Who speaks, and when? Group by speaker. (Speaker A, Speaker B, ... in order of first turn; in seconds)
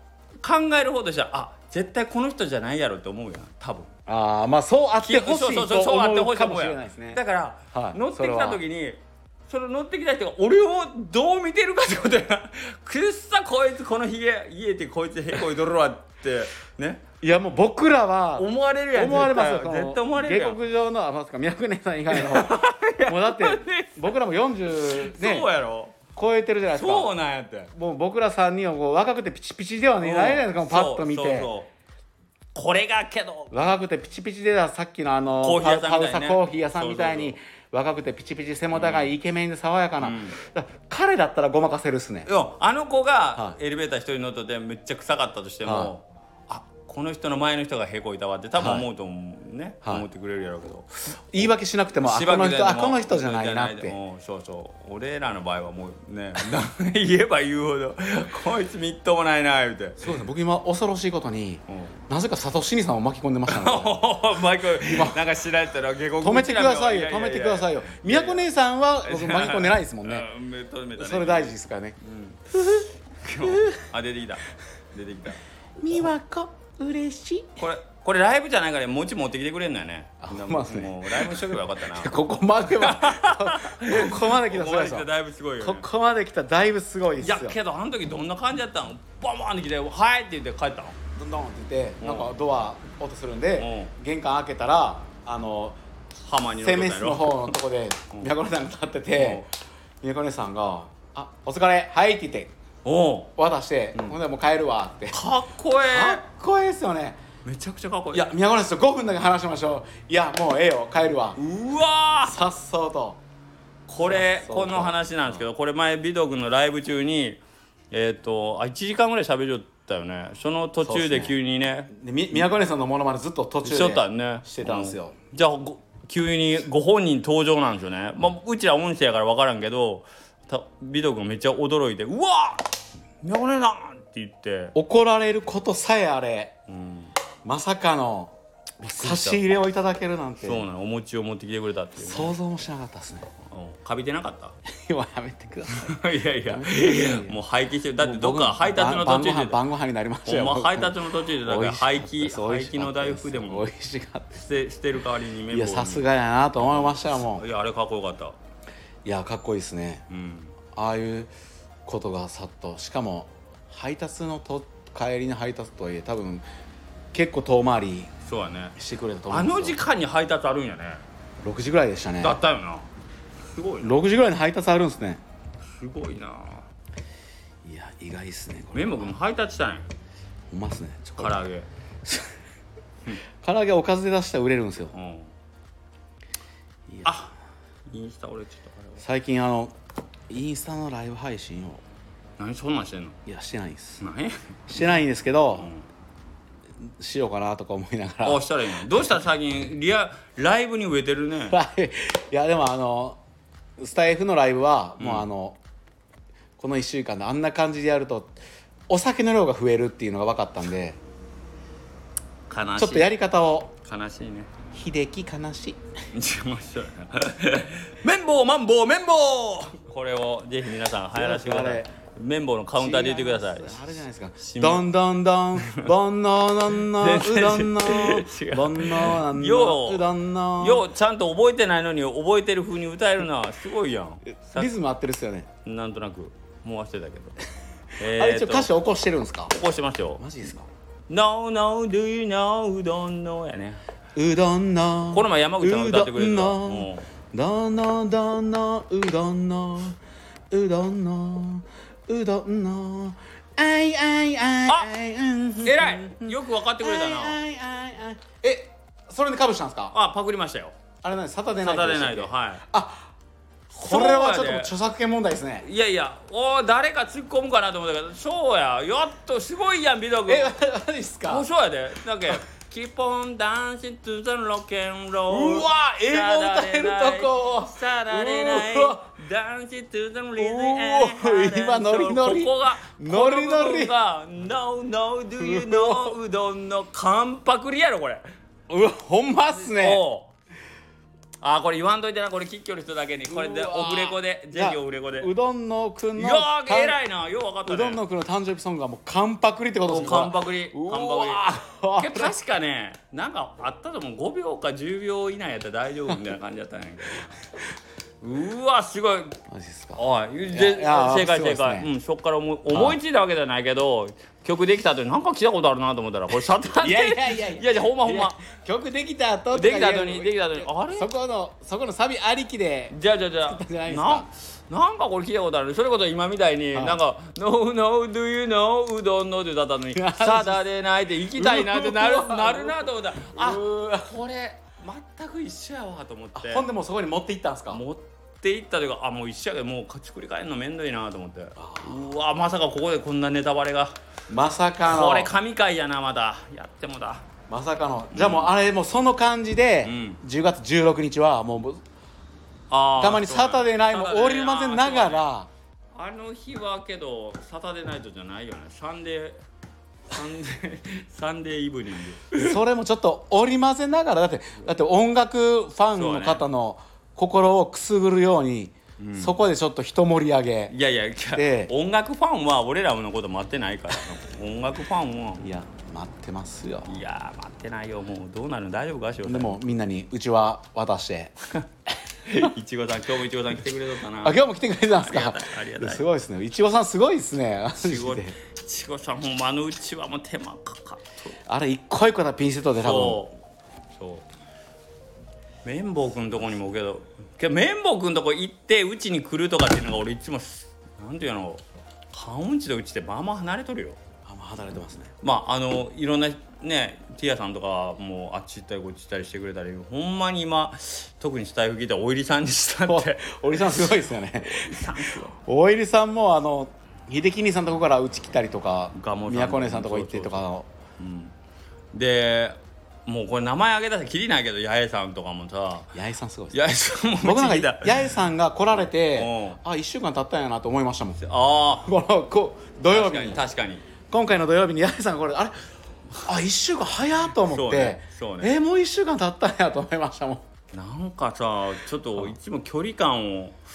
Speaker A: 0.4-3.9, 5.0-17.0, 18.4-20.6, 22.1-24.1, 24.7-26.0, 26.7-27.7, 30.0-31.7, 32.5-33.6, 35.4-37.4, 38.7-39.1, 40.0-40.4, 42.3-60.1, 61.7-62.0, 63.5-68.5, 69.0-75.4, 77.6-85.9, 87.2-91.0, 92.0-92.3, 93.6-93.9, 96.3-97.5, 99.2-99.5, 102.8-103.3, 105.1-106.2, 107.4-108.3, 111.4-112.4, 113.9-122.4, 123.6-134.8, 136.7-137.1, 138.8-139.4, 140.4-142.3, 143.4-144.6, 145.7-149.6, 150.3-153.7, 154.3-156.1, 156.6-158.4, 160.1-160.6, 168.2-168.8, 169.3-171.0, 172.2-172.9, 173.5-174.0, 175.6-176.7, 178.7-179.9, 181.2-181.7, 184.9-185.3, 187.1-187.3, 187.9-189.0, 192.4-193.2, 194.0-194.5, 195.6-195.8, 198.2-201.6, 205.0-205.3, 212.5-213.1, 213.8-214.5, 216.1-223.8, 224.4-224.9, 225.6-225.9, 226.8-230.1, 230.6-234.7, 235.6-237.4, 238.0-238.7, 239.5-240.2, 241.1-243.8, 245.1-247.1, 255.6-257.4, 259.9-260.8, 261.6-262.6, 263.7-264.7, 265.6-270.6, 271.3-288.3, 289.5-290.3, 291.4-295.3, 296.1-298.0, 299.9-307.4, 308.2-309.4, 309.9-318.4, 319.5-321.1, 322.9-336.7, 337.7-344.0, 344.8-347.3, 348.1-348.5, 349.8-350.2, 352.7-355.3, 355.9-359.4, 360.1-362.6, 365.9-366.4, 369.0-369.4, 370.7-375.5, 376.9-379.7, 382.3-384.4, 384.9-386.1, 387.8-391.4, 392.8-393.4, 394.0-394.2, 395.6-404.0, 405.2-415.4, 418.9-420.5, 421.0-421.3, 421.9-425.9, 426.5-428.1, 428.7-429.6, 431.2-431.9, 432.9-433.8, 437.4-438.5, 440.7-443.6
Speaker B: 4.1-7.2, 7.7-8.6, 17.2-25.5, 26.1-27.1, 27.7-31.5, 33.5-42.3, 45.6-45.9, 48.6-48.9, 51.3-54.0, 60.0-64.1, 64.8-65.2, 66.2-70.3, 71.0-72.0, 73.4-73.8, 75.8-77.6, 80.2-85.1, 85.6-87.6, 91.1-95.8, 96.5-99.5, 100.0-102.5, 103.4-105.2, 105.8-107.2, 108.1-111.4, 112.2-113.2, 114.0-115.4, 120.8-121.4, 121.9-125.2, 134.8-136.6, 137.4-140.6, 142.0-143.3, 144.7-147.4, 148.0-154.4, 155.5-157.4, 159.1-160.1, 160.7-161.3, 161.8-166.4, 167.1-168.1, 168.8-169.8, 171.4-172.4, 173.8-175.2, 177.6-179.1, 180.5-181.4, 182.1-182.3, 183.4-184.9, 189.0-189.8, 190.3-191.8, 193.3-194.0, 194.7-195.7, 196.8-199.2, 201.5-203.2, 203.8-205.6, 206.6-208.4, 208.9-211.0, 212.8-213.7, 214.7-215.8, 221.1-221.9, 222.8-230.9, 234.5-235.5, 238.1-239.6, 240.2-240.7, 244.2-250.0, 250.5-259.9, 261.0-263.1, 263.8-265.6, 270.3-271.5, 275.3-279.0, 280.4-283.9, 285.4-286.1, 288.7-290.0, 293.3-297.0, 297.6-302.3, 309.5-311.9, 312.7-313.0, 316.8-324.3, 326.7-327.0, 329.9-330.6, 331.3-334.1, 336.4-337.8, 341.6-342.1, 344.3-345.3, 347.5-351.8, 353.0-355.5, 362.3-370.7, 371.3-371.7, 375.4-376.9, 379.2-381.4, 384.2-388.4, 391.4-393.2, 404.2-405.1, 412.9-420.7, 425.9-426.6, 427.2-431.2, 431.8-433.4, 434.1-435.7, 436.2-440.4